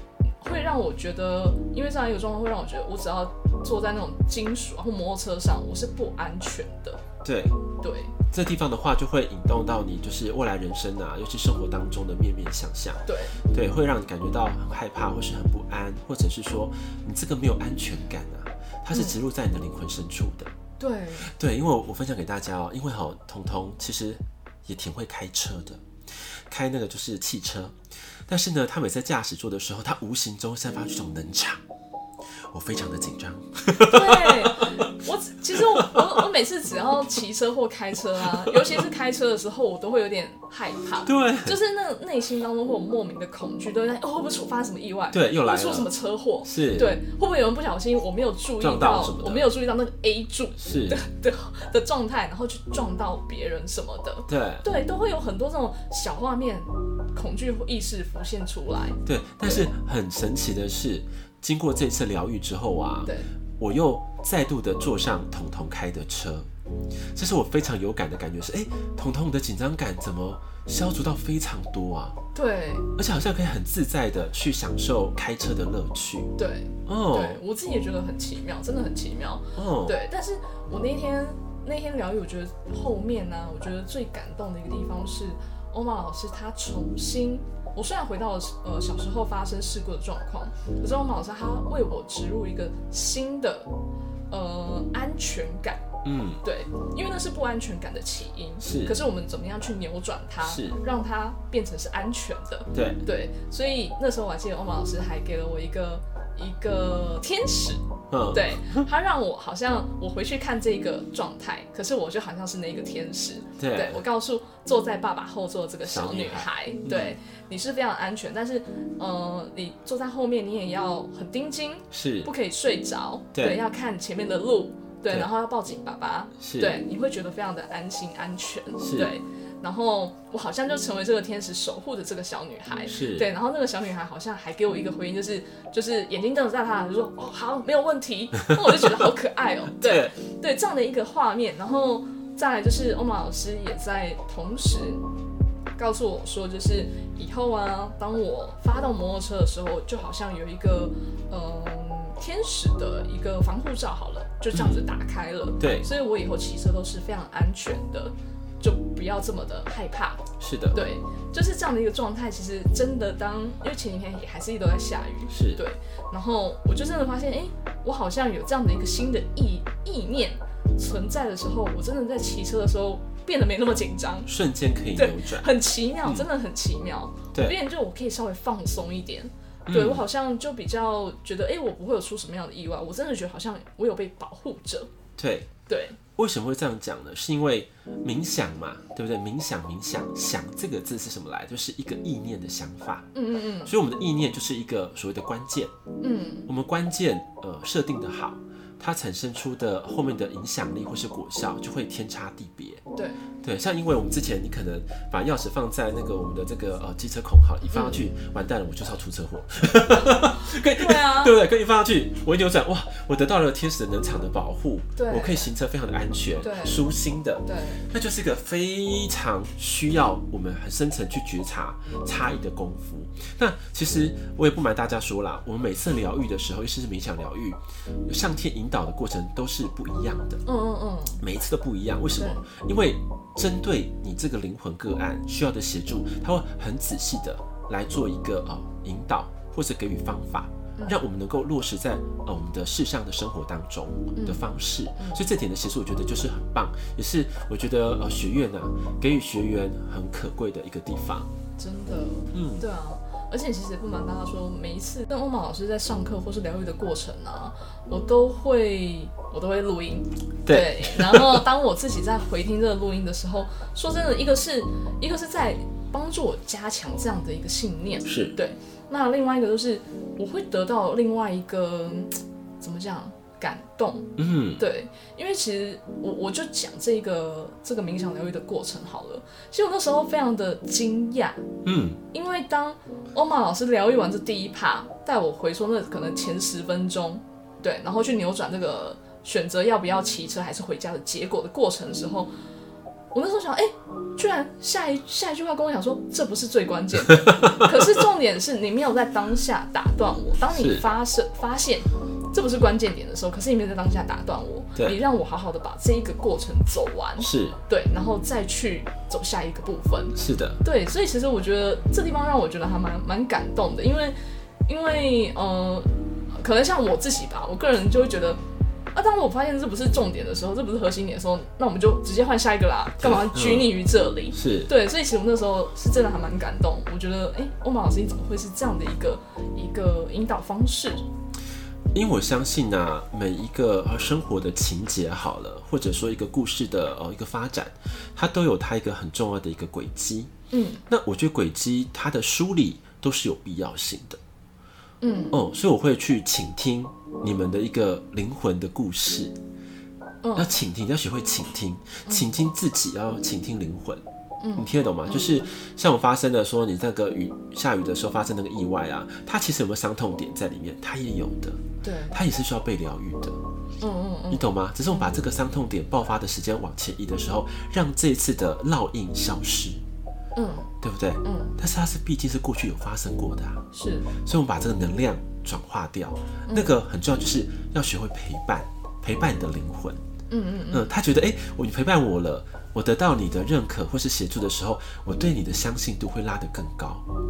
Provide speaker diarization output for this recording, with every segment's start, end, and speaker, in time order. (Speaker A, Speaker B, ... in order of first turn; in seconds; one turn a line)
Speaker A: 0.4-7.0
Speaker B: 7.2-7.6
Speaker A: 7.8-8.2
Speaker B: 8.3-20.5
Speaker A: 13.1-13.4
Speaker A: 18.9-19.2
Speaker A: 20.8-21.3
Speaker B: 21.2-31.6
Speaker B: 32.5-34.9
Speaker A: 33.8-59.7
Speaker B: 35.5-36.2
Speaker B: 38.5-38.8
Speaker B: 41.0-41.6
Speaker B: 45.1-45.9
Speaker B: 46.4-46.9
Speaker B: 48.6-49.5
Speaker B: 50.6-51.0
Speaker B: 54.3-54.7
Speaker B: 59.0-66.5
Speaker A: 63.0-63.3
Speaker B: 67.1-72.2
Speaker A: 72.3-72.9
Speaker B: 73.0-76.3
Speaker A: 76.4-93.7
Speaker B: 76.9-77.4
Speaker B: 79.6-80.0
Speaker A: 94.3-95.8
Speaker B: 96.0-96.4
Speaker A: 96.4-145.0
Speaker B: 98.6-99.0
Speaker B: 100.4-100.8
Speaker B: 102.7-103.0
Speaker B: 108.1-108.8
Speaker B: 113.6-114.0
Speaker B: 115.8-117.2
Speaker B: 121.9-122.3
Speaker B: 126.4-126.8
Speaker B: 128.8-129.1
Speaker B: 132.9-133.3
Speaker B: 139.8-140.2
Speaker A: 145.8-174.3
Speaker B: 154.5-154.8
Speaker B: 155.6-155.9
Speaker B: 160.4-160.8
Speaker B: 165.3-165.6
Speaker B: 174.3-175.5
Speaker A: 174.9-184.9
Speaker B: 179.7-180.0
Speaker B: 185.2-185.5
Speaker A: 185.7-186.0
Speaker B: 186.2-193.1
Speaker A: 193.1-193.7
Speaker B: 193.7-195.7
Speaker A: 196.0-196.5
Speaker B: 196.5-202.8
Speaker A: 202.9-203.2
Speaker B: 203.4-230.4
Speaker A: 207.7-208.0
Speaker A: 210.1-211.3
Speaker A: 215.0-215.5
Speaker A: 216.4-216.9
Speaker A: 217.4-217.8
Speaker A: 230.5-231.2
Speaker B: 231.2-251.3
Speaker A: 232.2-232.4
Speaker A: 244.2-245.2
Speaker A: 251.6-281.4
Speaker B: 252.3-252.6
Speaker B: 260.4-261.4
Speaker B: 268.1-268.4
Speaker B: 274.2-274.6
Speaker B: 281.6-282.0
Speaker A: 282.1-292.3
Speaker A: 293.1-314.2
Speaker B: 297.1-298.0
Speaker B: 300.5-300.8
Speaker B: 307.2-307.6
Speaker B: 310.1-310.6
Speaker A: 314.7-318.4
Speaker A: 318.9-331.0
Speaker B: 323.0-323.8
Speaker B: 324.3-324.7
Speaker B: 331.9-340.3
Speaker A: 340.5-340.8
Speaker B: 340.9-344.2
Speaker A: 345.0-345.4
Speaker B: 345.3-349.4
Speaker A: 350.2-350.5
Speaker B: 350.4-354.0
Speaker A: 352.1-352.4
Speaker A: 354.4-355.3
Speaker B: 354.6-363.4
Speaker A: 361.8-362.2
Speaker A: 363.8-365.2
Speaker B: 364.3-369.8
Speaker A: 370.4-370.7
Speaker B: 370.8-373.6
Speaker A: 371.2-371.6
Speaker A: 373.7-374.1
Speaker B: 374.2-380.0
Speaker A: 376.5-376.8
Speaker A: 380.3-380.9
Speaker B: 380.7-387.1